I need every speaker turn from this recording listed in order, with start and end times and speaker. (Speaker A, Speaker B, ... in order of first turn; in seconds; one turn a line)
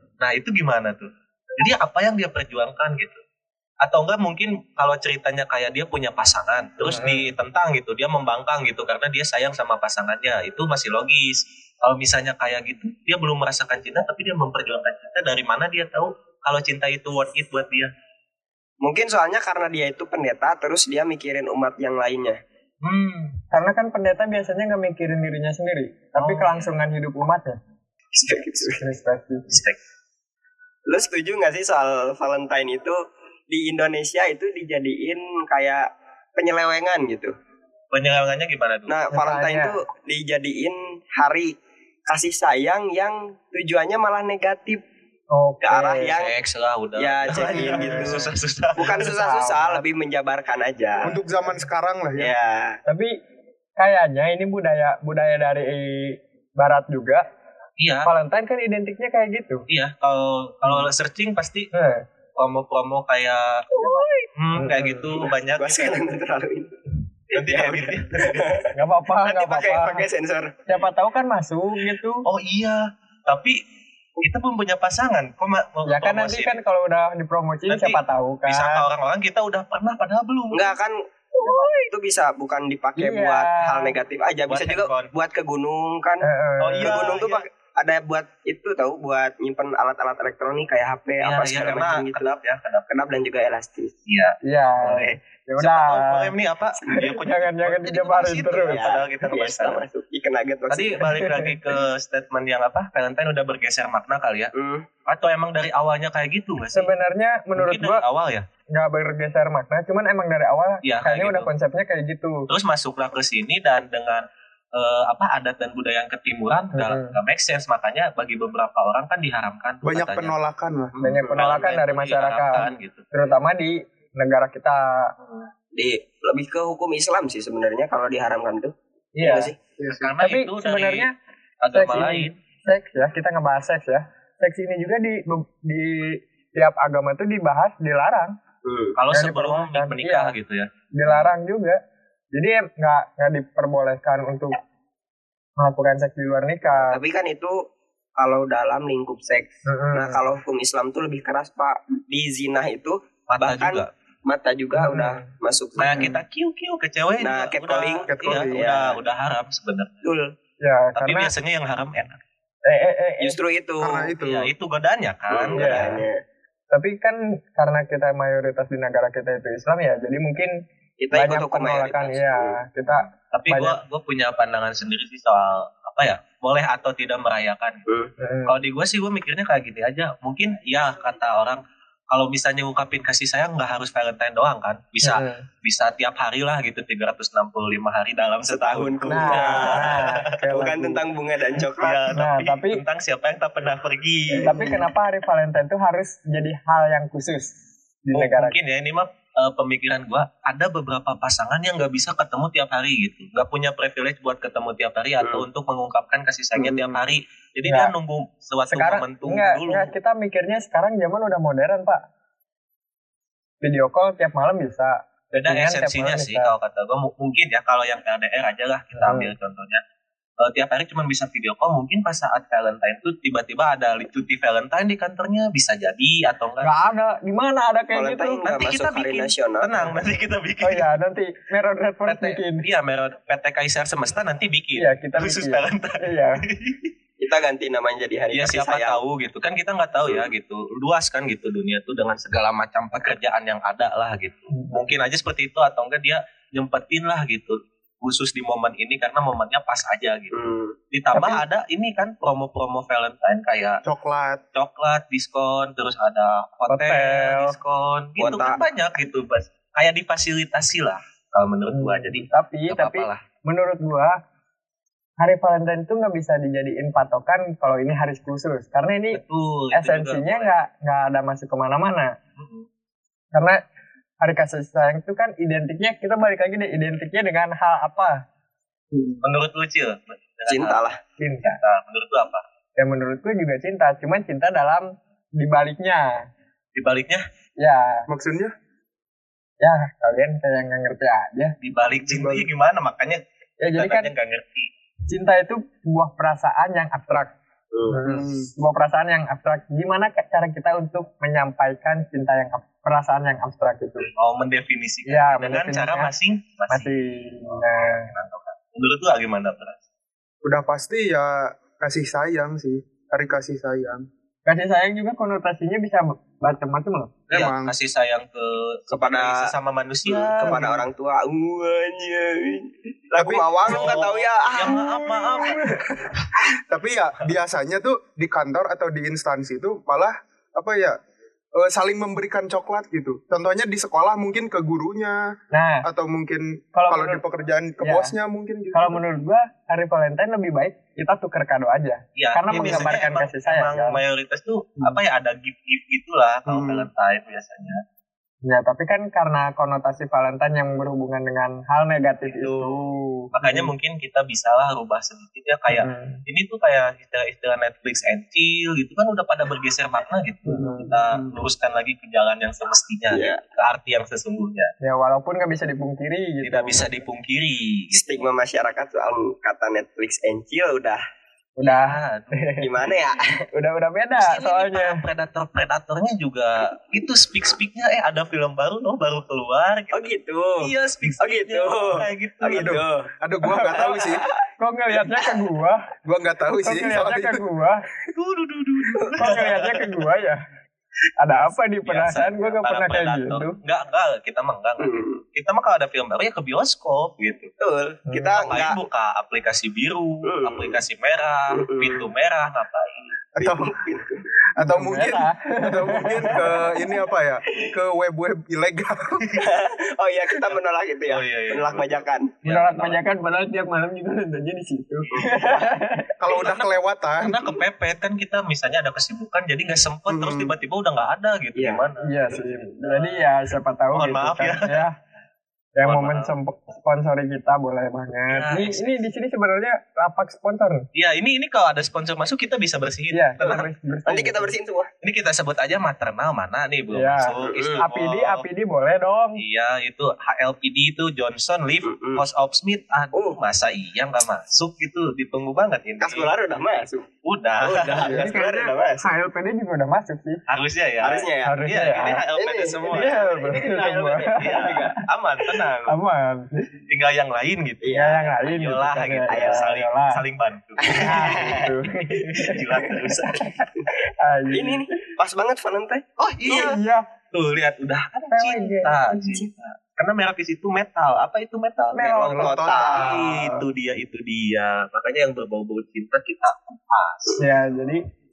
Speaker A: 0.2-3.2
Speaker A: 3.8-17.9
Speaker B: 6.8-7.2
Speaker C: 18.8-22.4
Speaker A: 22.8-23.4
Speaker B: 23.5-27.6
Speaker A: 26.1-26.7
Speaker C: 28.1-28.8
Speaker B: 28.6-29.5
Speaker A: 29.5-29.8
Speaker C: 30.9-35.8
Speaker C: 36.4-37.3
Speaker A: 37.9-38.9
Speaker C: 38.9-41.5
Speaker B: 39.1-39.7
Speaker C: 42.1-44.8
Speaker B: 45.3-46.1
Speaker C: 45.6-46.3
Speaker A: 46.1-49.0
Speaker C: 47.0-51.1
Speaker B: 47.5-49.8
Speaker D: 51.0-52.3
Speaker C: 52.2-52.8
Speaker B: 52.9-53.1
Speaker B: 53.8-57.2
Speaker A: 57.8-58.1
Speaker B: 58.0-59.7
Speaker A: 59.7-61.7
Speaker B: 61.7-62.0
Speaker A: 62.4-63.7
Speaker C: 63.7-64.1
Speaker B: 63.8-65.1
Speaker A: 64.3-66.0
Speaker C: 65.1-66.8
Speaker A: 67.3-68.6
Speaker C: 67.3-70.6
Speaker B: 68.7-70.1
Speaker B: 70.7-72.2
Speaker A: 72.2-73.6
Speaker A: 74.2-76.6
Speaker B: 75.9-78.9
Speaker A: 77.7-80.7
Speaker C: 80.5-86.2
Speaker B: 81.3-81.9
Speaker B: 83.0-84.0
Speaker A: 84.5-85.1
Speaker B: 86.2-86.9
Speaker A: 86.6-87.4
Speaker C: 86.8-92.3
Speaker A: 91.2-92.9
Speaker C: 92.9-93.9
Speaker A: 94.1-99.8
Speaker B: 94.4-96.3
Speaker C: 96.8-97.1
Speaker B: 96.9-98.8
Speaker C: 98.7-101.2
Speaker A: 100.7-104.5
Speaker B: 101.1-101.5
Speaker C: 104.5-104.9
Speaker A: 105.0-106.9
Speaker B: 106.7-108.0
Speaker A: 107.5-108.5
Speaker B: 108.7-112.5
Speaker A: 110.8-111.5
Speaker A: 112.5-120.3
Speaker B: 116.7-117.1
Speaker D: 119.8-121.0
Speaker A: 121.0-123.0
Speaker B: 121.0-125.1
Speaker C: 121.2-121.7
Speaker C: 125.7-129.6
Speaker B: 129.2-129.5
Speaker D: 129.8-130.1
Speaker A: 129.9-131.1
Speaker B: 130.2-131.1
Speaker A: 131.6-132.3
Speaker B: 131.7-138.3
Speaker C: 138.6-139.0
Speaker A: 138.9-141.3
Speaker B: 139.1-140.3
Speaker B: 140.9-141.8
Speaker B: 142.3-144.6
Speaker B: 145.6-147.0
Speaker C: 146.7-147.6
Speaker C: 148.2-156.2
Speaker B: 149.7-150.2
Speaker A: 153.3-153.9
Speaker B: 154.8-155.3
Speaker A: 155.8-160.0
Speaker C: 157.2-159.0
Speaker D: 158.1-158.6
Speaker C: 160.0-160.3
Speaker B: 160.6-161.3
Speaker A: 160.9-162.2
Speaker B: 162.6-163.4
Speaker C: 163.2-164.1
Speaker D: 163.8-164.5
Speaker A: 164.2-166.0
Speaker C: 165.3-166.2
Speaker B: 165.5-166.0
Speaker B: 166.7-170.5
Speaker C: 171.0-172.6
Speaker B: 171.1-173.8
Speaker A: 173.3-177.8
Speaker B: 178.2-178.5
Speaker A: 178.4-190.3
Speaker B: 185.0-185.4
Speaker C: 188.5-192.1
Speaker B: 189.1-191.0
Speaker A: 191.6-194.7
Speaker B: 192.1-192.8
Speaker C: 194.3-194.8
Speaker B: 194.4-197.5
Speaker B: 198.0-198.6
Speaker A: 198.1-209.9
Speaker B: 207.7-207.9
Speaker B: 208.7-212.0
Speaker B: 213.6-216.5
Speaker A: 215.3-219.8
Speaker B: 218.9-219.3
Speaker A: 220.4-226.7
Speaker B: 226.6-228.5
Speaker C: 227.9-229.9
Speaker A: 228.4-230.9
Speaker B: 230.6-232.6
Speaker A: 232.1-236.9
Speaker B: 234.8-236.4
Speaker C: 237.2-239.0
Speaker A: 238.3-253.8
Speaker C: 250.3-250.7
Speaker B: 251.1-251.4
Speaker D: 253.8-254.4
Speaker A: 254.5-263.2
Speaker B: 256.7-257.5
Speaker C: 258.2-258.6
Speaker B: 261.7-264.2
Speaker B: 265.2-269.2
Speaker A: 269.1-270.6
Speaker B: 269.7-272.1
Speaker A: 272.4-272.7
Speaker B: 273.3-273.6
Speaker B: 274.2-278.2
Speaker A: 279.2-280.8
Speaker C: 280.5-281.0
Speaker B: 281.2-281.6
Speaker A: 281.4-282.4
Speaker B: 282.8-286.3
Speaker A: 286.7-287.3
Speaker B: 287.6-288.1
Speaker D: 288.1-288.5
Speaker B: 289.6-291.6
Speaker A: 291.6-294.7
Speaker D: 292.0-292.5
Speaker B: 293.6-294.1
Speaker B: 295.1-297.3
Speaker C: 297.7-298.0
Speaker B: 297.9-304.1
Speaker D: 298.0-298.5
Speaker A: 304.1-306.9
Speaker B: 305.1-306.1
Speaker B: 306.7-308.1
Speaker A: 308.1-309.8
Speaker D: 310.4-314.1
Speaker B: 314.4-317.1
Speaker D: 317.3-317.7
Speaker A: 317.3-320.6
Speaker C: 318.9-319.5
Speaker C: 320.1-324.8
Speaker D: 320.5-320.8
Speaker D: 323.2-324.0
Speaker A: 323.6-325.6
Speaker B: 324.7-325.8
Speaker D: 326.7-331.0
Speaker D: 331.6-339.0
Speaker B: 335.5-335.9
Speaker B: 336.7-337.2
Speaker B: 337.8-338.1
Speaker B: 338.7-344.0
Speaker A: 342.1-347.8
Speaker D: 346.5-346.9
Speaker B: 348.4-353.7
Speaker A: 352.3-352.8
Speaker A: 353.3-364.7
Speaker B: 355.7-356.2
Speaker B: 360.4-360.9
Speaker C: 363.1-363.4
Speaker B: 364.8-366.9
Speaker A: 366.4-368.3
Speaker C: 367.9-371.0
Speaker B: 371.6-372.7
Speaker A: 371.6-372.4
Speaker C: 372.6-373.4
Speaker B: 373.5-375.0
Speaker A: 374.1-382.8
Speaker C: 379.9-383.1
Speaker D: 382.5-384.2
Speaker C: 383.6-384.3
Speaker B: 384.6-385.8
Speaker D: 386.0-387.4
Speaker B: 386.6-387.8
Speaker A: 388.1-390.0
Speaker C: 388.9-389.2
Speaker B: 389.2-390.4
Speaker B: 391.2-393.6
Speaker A: 391.3-397.5
Speaker C: 394.8-395.2
Speaker C: 397.6-398.8
Speaker B: 398.1-398.4
Speaker A: 398.3-403.1
Speaker C: 400.2-400.8
Speaker C: 401.5-402.1
Speaker D: 403.4-403.8
Speaker C: 403.4-404.2
Speaker D: 404.6-409.4
Speaker B: 404.6-406.4
Speaker C: 409.4-412.3
Speaker A: 410.4-413.0
Speaker B: 412.4-416.1
Speaker C: 415.1-415.7
Speaker D: 416.2-417.5
Speaker A: 416.3-416.6
Speaker A: 417.2-422.1
Speaker D: 420.1-420.5
Speaker C: 421.5-423.1
Speaker B: 422.0-424.9
Speaker A: 423.9-424.8
Speaker B: 425.7-430.9
Speaker A: 425.8-426.3
Speaker A: 428.3-429.0
Speaker A: 430.9-433.7
Speaker B: 433.1-434.5
Speaker C: 433.4-434.9
Speaker A: 435.0-438.4
Speaker B: 436.9-439.4
Speaker C: 437.4-437.8
Speaker A: 439.4-446.3
Speaker C: 441.8-442.2
Speaker C: 443.1-443.4
Speaker C: 446.0-447.1
Speaker A: 447.2-448.2
Speaker C: 447.6-449.1
Speaker B: 448.1-450.4
Speaker A: 450.5-456.0
Speaker C: 451.0-451.6
Speaker B: 451.4-452.2
Speaker C: 452.2-455.0
Speaker B: 452.9-455.0
Speaker B: 455.9-456.7
Speaker A: 456.9-463.5
Speaker C: 457.8-458.3
Speaker B: 457.9-460.2
Speaker C: 459.3-459.7
Speaker C: 460.8-461.8
Speaker B: 461.0-464.9
Speaker C: 464.5-466.0
Speaker A: 466.2-466.8
Speaker B: 466.4-467.1
Speaker A: 467.3-477.4
Speaker B: 468.3-469.0
Speaker C: 469.2-469.4
Speaker B: 471.9-473.6
Speaker C: 472.1-473.2
Speaker D: 472.4-473.2
Speaker B: 477.4-478.1